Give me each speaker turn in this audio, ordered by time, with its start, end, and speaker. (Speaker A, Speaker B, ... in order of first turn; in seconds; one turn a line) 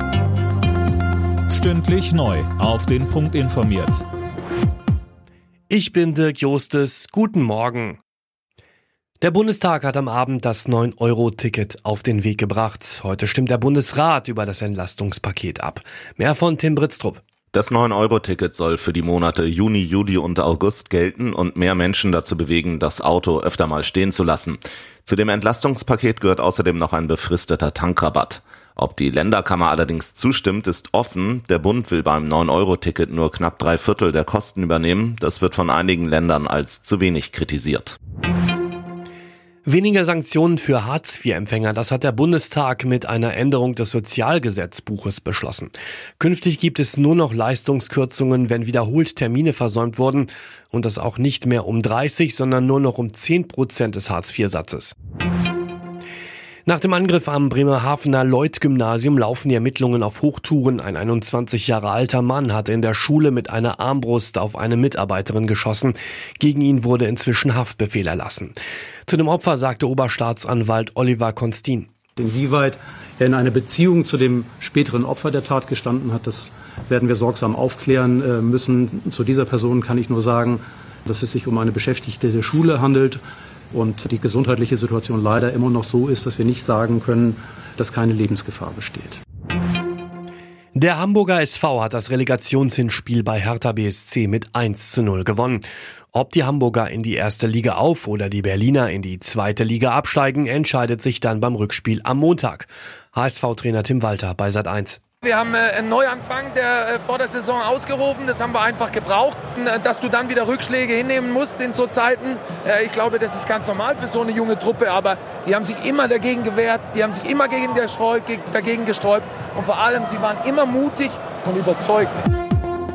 Speaker A: 1.5-4.0
Speaker B: 5.7-8.0
Speaker B: 9.2-17.2
Speaker C: 17.5-38.0
Speaker B: 39.6-54.9
Speaker B: 56.7-68.5
Speaker B: 69.1-71.9
Speaker D: 72.2-83.2
Speaker D: 83.7-89.2
Speaker B: 90.8-105.0
Speaker E: 105.2-122.2